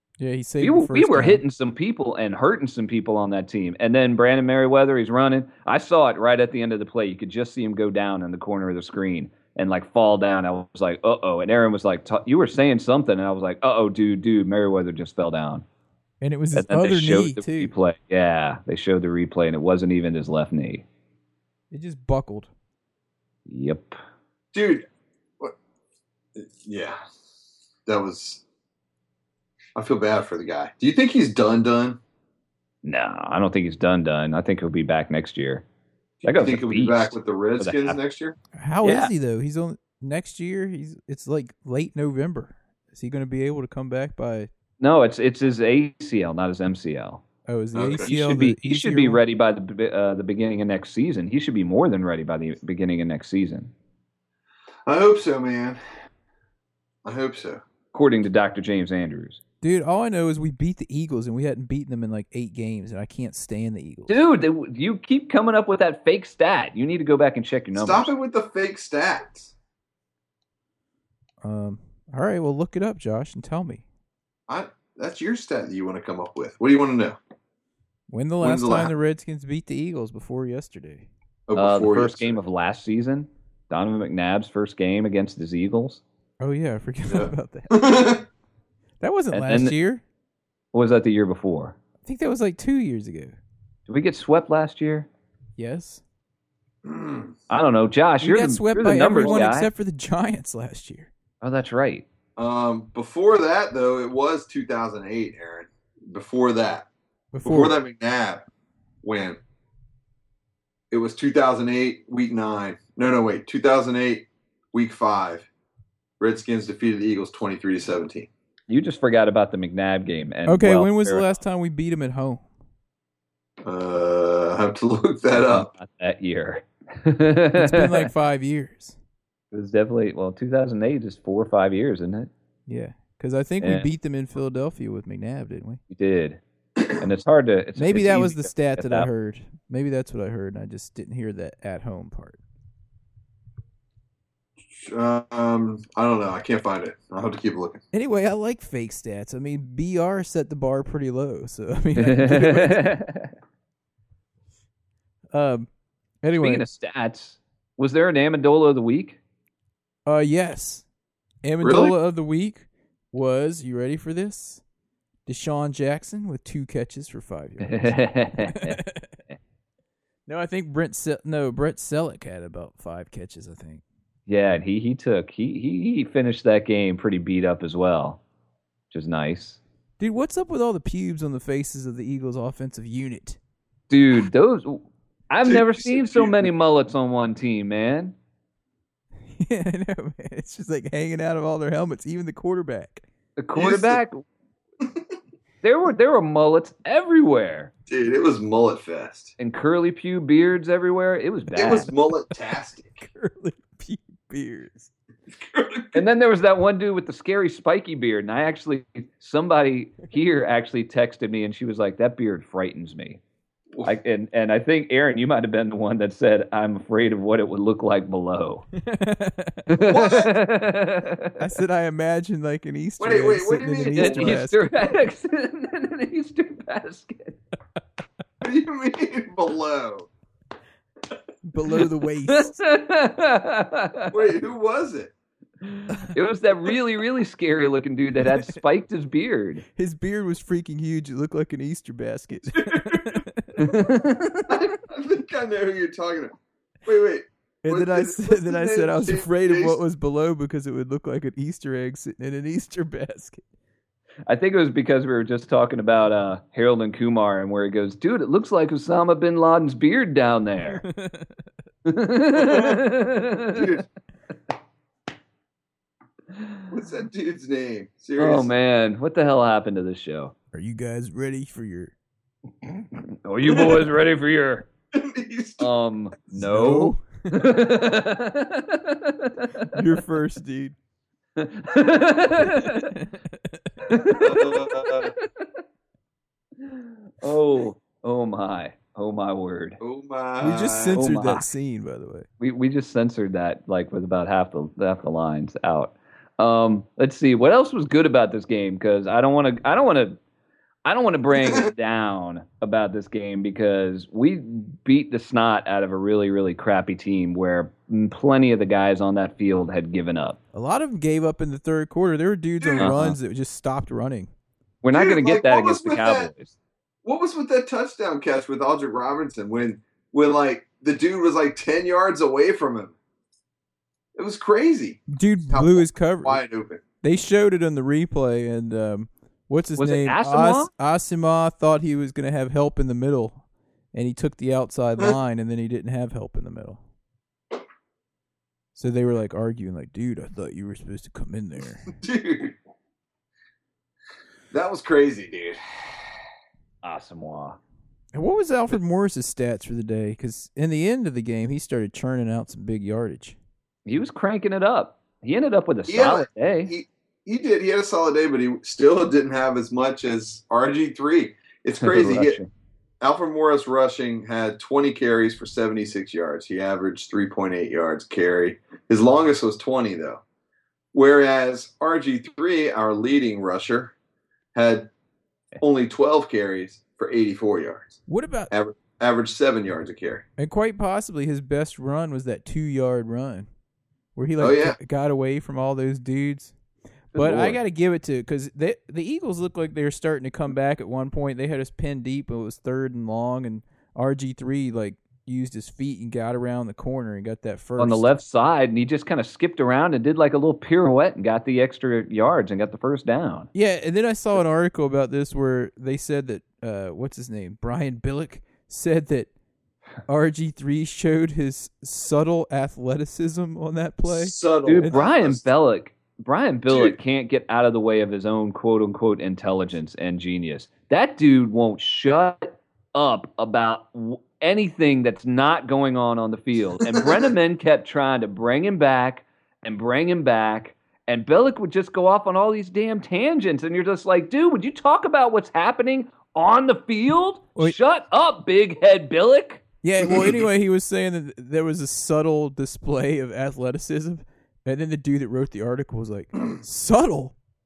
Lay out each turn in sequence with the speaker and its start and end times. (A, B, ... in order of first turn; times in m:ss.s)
0:00.2-0:01.4 A
0:00.6-0:15.6 B
0:16.2-0:17.7 A
0:16.5-0:20.8 B
0:21.7-0:22.5 A
0:23.5-0:24.0 B
0:24.5-0:24.8 C
0:26.4-0:27.0 C
0:27.8-0:28.4 C
0:29.8-0:32.0 C
0:32.8-0:35.6 B
0:36.2-0:38.4 C
0:36.2-0:38.0 B
0:38.5-0:44.5 A
0:38.8-0:39.1 B
0:44.8-0:47.2 B
0:47.4-0:49.2 A
0:47.7-0:48.1 C
0:48.0-0:53.7 B
0:54.8-0:55.8 C
0:57.0-0:57.6 C
0:57.9-0:59.4 B
0:59.6-1:04.2 A
1:04.1-1:08.1 B
1:07.7-1:09.5 C
1:11.4-1:13.8 A
1:14.5-1:17.2 C
1:18.1-1:21.1 A
1:18.4-1:18.9 C
1:21.5-1:22.4 C
1:21.5-1:26.0 B
1:26.4-1:28.1 A
1:27.1-1:28.2 C
1:29.0-1:30.0 A
1:29.3-1:29.8 B
1:30.7-1:31.8 B
1:32.0-1:33.4 A
1:33.9-1:35.1 B
1:35.6-1:36.0 A
1:36.8-1:37.3 C
1:37.5-1:39.7 B
1:38.2-1:41.1 A
1:41.4-1:42.0 B
1:42.4-1:46.9 C
1:47.3-1:47.7 A
1:47.4-1:48.4 C
1:49.0-1:49.4 C
1:50.9-1:55.5 C
1:56.2-1:58.3 C
1:58.7-2:01.3 B
2:00.4-2:02.5 A
2:03.6-2:05.7 C
2:05.3-2:08.1 B
2:07.5-2:09.0 A
2:09.5-2:12.3 B
2:12.7-2:15.8 A
2:13.6-2:13.9 B
2:15.9-2:16.4 B
2:17.0-2:19.1 B
2:17.8-2:22.4 A
2:24.8-2:27.8 C
2:27.9-2:32.9 A
2:32.0-2:33.3 B
2:35.3-2:35.7 A
2:36.2-2:36.7 A
2:36.3-2:39.2 B
2:40.0-2:40.8 A
2:41.4-2:44.6 A
2:41.6-2:41.9 C
2:45.2-2:49.1 A
2:47.6-2:49.3 B
2:50.3-2:53.8 A
2:54.3-2:58.2 B
2:58.9-2:59.6 B
3:00.0-3:03.4 A
3:03.9-3:08.1 B
3:05.4-3:06.5 C
3:09.3-3:13.0 A
3:13.4-3:14.2 B
3:13.5-3:14.0 C
3:15.6-3:17.7 B
3:17.9-3:19.3 C
3:19.4-3:21.9 B
3:21.5-3:23.0 C
3:23.0-3:24.9 A
3:25.4-3:26.0 C
3:25.9-3:33.2 B
3:33.8-3:38.6 B
3:38.8-3:39.7 A
3:39.7-3:41.4 B
3:39.8-3:40.3 C
3:41.4-3:44.7 A
3:43.0-3:44.4 C
3:44.0-3:47.4 B
3:48.4-3:50.1 C
3:51.4-3:52.6 A
3:52.3-3:54.1 B
3:54.1-3:55.1 C
3:55.7-3:59.6 B
3:58.2-3:58.6 A
3:59.8-4:04.0 A
4:02.5-4:03.2 C
4:03.6-4:04.5 B
4:04.5-4:09.8 C
4:07.6-4:13.4 A
4:14.3-4:20.8 B
4:20.6-4:21.4 A
4:21.8-4:23.6 B
4:22.4-4:22.8 C
4:23.5-4:23.8 C
4:26.7-4:28.5 C
4:28.2-4:30.3 B
4:30.5-4:31.9 A
4:32.9-4:34.7 B
4:33.5-4:33.8 C
4:34.9-4:35.7 C
4:35.6-4:39.7 B
4:36.3-4:37.5 A
4:39.7-4:40.7 A
4:41.4-4:42.9 B
4:42.4-4:43.7 A
4:43.9-4:45.4 B
4:44.1-4:45.1 C
4:46.6-4:49.8 B
4:49.8-4:51.0 C
4:50.4-4:52.3 A
4:51.0-4:51.5 B
4:52.4-5:00.2 B
5:00.8-5:10.4 B
5:01.3-5:01.7 C
5:10.5-5:14.3 A
5:12.6-5:12.9 C
5:12.8-5:13.1 B
5:14.8-5:16.5 B
5:14.9-5:16.3 C
5:17.0-5:22.9 C
5:24.2-5:26.8 C
5:25.1-5:26.4 A
5:27.0-5:33.4 A
5:29.8-5:30.7 B
5:33.9-5:36.8 A
5:38.7-5:41.9 A
5:42.0-5:42.5 C
5:44.5-5:46.0 C
5:46.8-5:47.6 B
5:48.1-5:53.4 A
5:53.8-5:56.7 B
5:55.9-6:02.4 C
6:01.8-6:02.5 B
6:03.0-6:10.2 C
6:10.9-6:13.9 C
6:14.5-6:14.9 C
6:15.6-6:18.0 C
6:18.1-6:18.5 A
6:18.5-6:20.2 C
6:20.4-6:23.5 A
6:24.2-6:26.5 A
6:24.4-6:24.8 C
6:27.1-6:38.1 A
6:27.2-6:27.6 C
6:37.8-6:43.5 B
6:43.5-6:49.3 A
6:50.1-6:55.0 A
6:54.1-6:55.4 C
6:54.6-7:19.6 B
6:56.7-6:57.0 C
7:07.0-7:07.2 C
7:19.8-7:27.4 A
7:20.0-7:20.4 C